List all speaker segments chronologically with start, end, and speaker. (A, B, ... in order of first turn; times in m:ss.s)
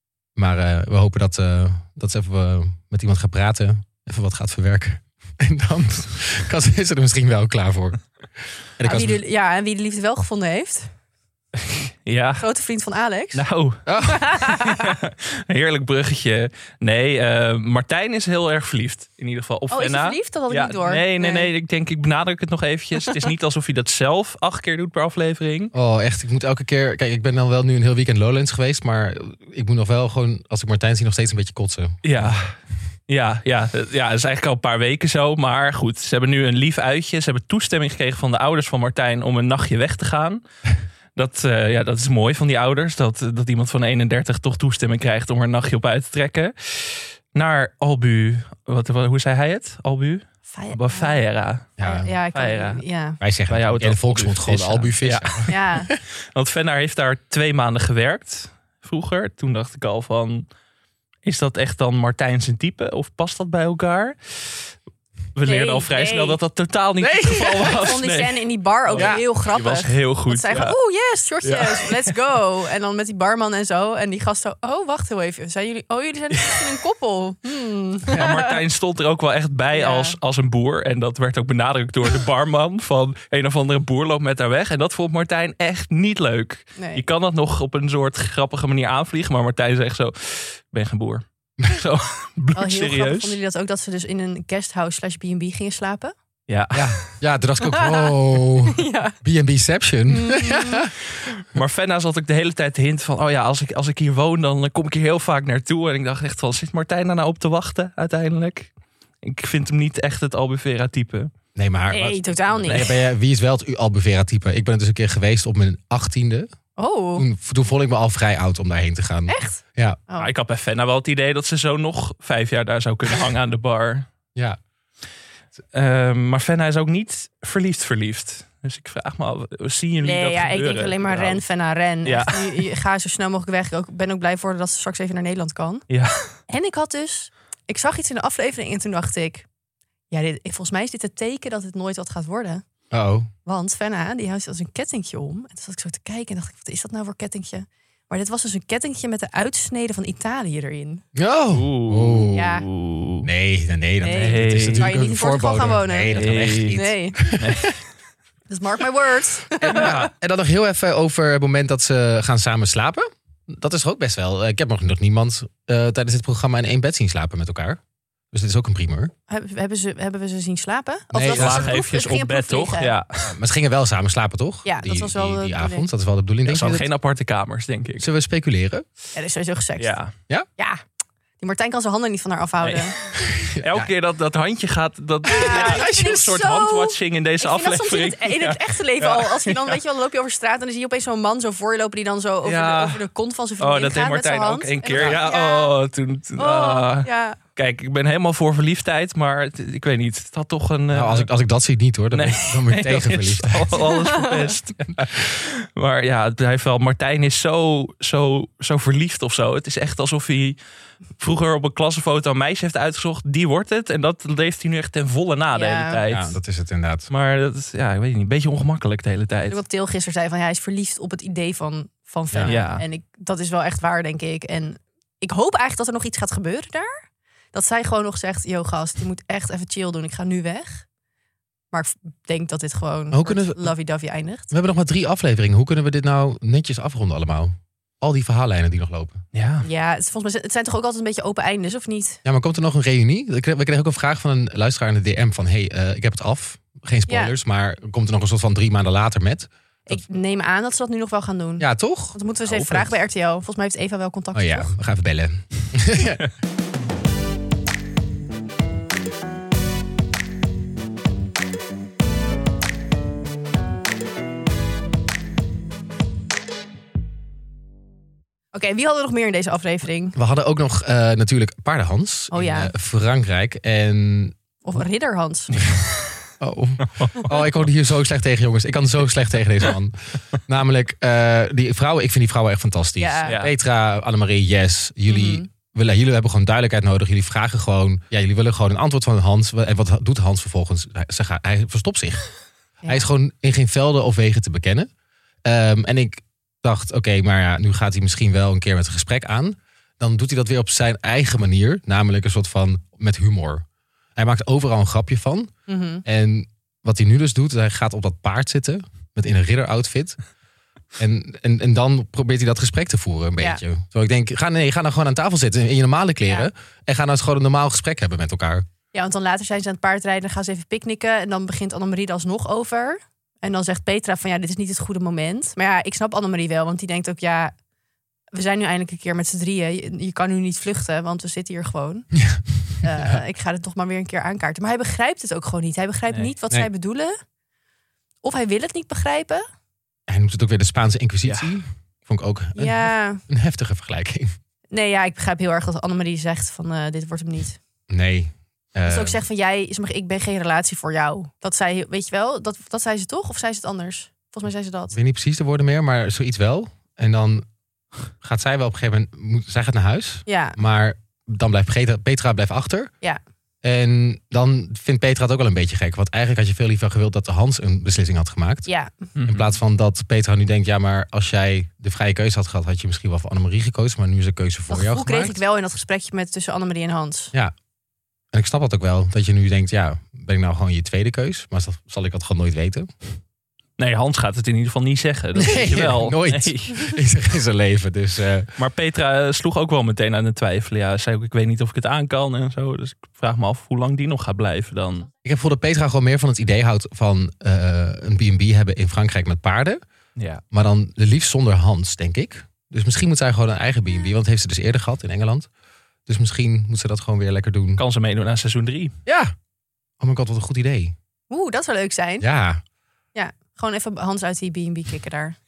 0:00.4-0:08.1 A
0:08.8-0:09.2 A
0:08.8-0:10.9 B
0:11.6-0:12.5 C
0:12.4-0:13.4 B
0:13.3-0:25.7 C
0:13.8-0:14.3 A
0:14.0-0:15.0 B
0:19.7-0:21.5 B
0:25.7-0:32.3 A
0:32.0-0:32.5 C
0:33.1-0:40.4 C
0:41.2-0:52.8 C
0:50.5-0:51.2 B
0:51.8-0:52.1 A
0:51.8-0:53.2 B
0:53.2-0:56.0 A
0:53.5-0:55.5 C
0:55.5-0:55.9 B
0:56.3-1:00.4 C
1:01.2-1:04.7 C
1:05.3-1:10.8 C
1:05.4-1:06.4 B
1:07.0-1:07.9 A
1:07.7-1:18.6 B
1:09.0-1:09.2 A
1:11.4-1:12.1 C
1:18.1-1:33.4 C
1:19.7-1:20.2 B
1:26.8-1:27.0 B
1:32.5-1:36.1 B
1:36.5-1:37.1 C
1:36.7-1:40.9 A
1:37.6-1:38.1 B
1:38.6-1:39.2 B
1:40.1-1:40.9 B
1:41.2-1:48.7 C
1:49.2-1:51.3 C
1:51.6-1:56.5 A
1:51.9-1:53.0 B
1:52.6-1:52.9 C
1:56.8-1:57.2 B
1:57.1-2:00.0 A
1:59.3-2:00.3 B
2:00.2-2:04.1 C
2:05.7-2:11.4 C
2:10.0-2:15.8 B
2:12.0-2:12.6 C
2:15.9-2:16.1 C
2:16.5-2:19.5 B
2:20.1-2:22.6 B
2:22.9-2:23.3 A
2:23.4-2:31.0 B
2:31.1-2:32.6 A
2:31.5-2:33.3 C
2:32.3-2:32.6 B
2:33.2-2:37.6 A
2:34.0-2:37.3 B
2:34.1-2:34.9 C
2:36.1-2:36.8 C
2:37.3-2:37.8 C
2:38.5-2:39.9 B
2:39.6-2:47.8 A
2:39.7-2:40.0 C
2:48.3-2:49.1 A
2:49.3-2:52.9 B
2:51.1-2:51.8 A
2:51.3-2:53.3 C
2:53.2-2:56.9 A
2:54.6-2:55.9 B
2:56.4-2:58.1 C
2:58.0-2:58.8 A
2:59.1-3:00.0 B
2:59.8-3:00.1 C
3:01.4-3:03.0 B
3:02.6-3:09.8 C
3:03.2-3:03.9 A
3:05.2-3:15.8 B
3:05.3-3:06.2 A
3:12.4-3:13.0 C
3:13.6-3:21.3 C
3:14.9-3:15.3 A
3:16.4-3:17.4 B
3:20.9-3:23.8 A
3:22.1-3:30.6 C
3:23.8-3:24.5 B
3:31.2-3:36.4 C
3:35.5-3:36.0 B
3:36.1-3:37.1 A
3:37.1-3:39.6 C
3:39.5-3:46.9 B
3:42.4-3:42.8 C
3:47.5-3:50.8 B
3:51.7-3:54.5 B
3:53.1-3:53.7 A
3:54.5-3:59.2 A
3:59.3-3:59.7 C
3:59.6-4:02.2 B
4:02.2-4:10.0 A
4:07.1-4:07.3 B
4:09.9-4:14.7 B
4:11.6-4:12.2 A
4:12.4-4:13.0 C
4:14.3-4:16.2 A
4:28.5-4:30.2 B
4:30.2-4:34.3 A
4:32.3-4:32.7 B
4:34.6-4:35.6 B
4:35.5-4:36.2 C
4:36.4-4:52.3 A
4:36.9-4:37.4 C
4:43.0-4:43.4 B
4:43.3-4:43.5 C
4:45.1-4:45.5 B
4:52.8-4:53.1 B
4:52.9-4:54.9 A
4:55.4-5:03.6 A
5:04.2-5:05.5 A
5:05.7-5:06.0 B
5:06.0-5:10.2 A
5:11.0-5:18.6 A
5:13.4-5:13.6 B
5:18.9-5:27.5 B
5:28.3-5:32.1 B
5:32.2-5:32.7 A
5:32.8-5:37.1 B
5:38.2-5:39.4 B
5:40.1-5:44.3 A
5:41.2-5:41.6 C
5:42.5-5:43.2 B
5:44.7-5:47.6 B
5:47.9-5:49.2 A
5:48.8-5:55.0 B
5:54.9-5:57.4 A
5:58.2-6:02.9 A
6:00.2-6:00.6 B
6:03.6-6:08.7 A
6:08.6-6:08.9 B
6:09.2-6:09.6 C
6:09.2-6:15.4 A
6:14.7-6:17.3 B
6:18.3-6:22.9 A
6:23.8-6:27.0 C
6:25.3-6:28.5 A
6:28.6-6:35.1 C
6:35.2-6:39.8 A
6:40.2-6:40.4 C
6:40.5-6:45.5 A
6:46.1-6:47.8 A
6:47.8-6:48.9 C
6:49.0-6:49.3 A
6:50.0-6:50.9 A
6:51.3-6:52.3 B
6:52.2-6:52.6 A
6:53.1-6:55.4 B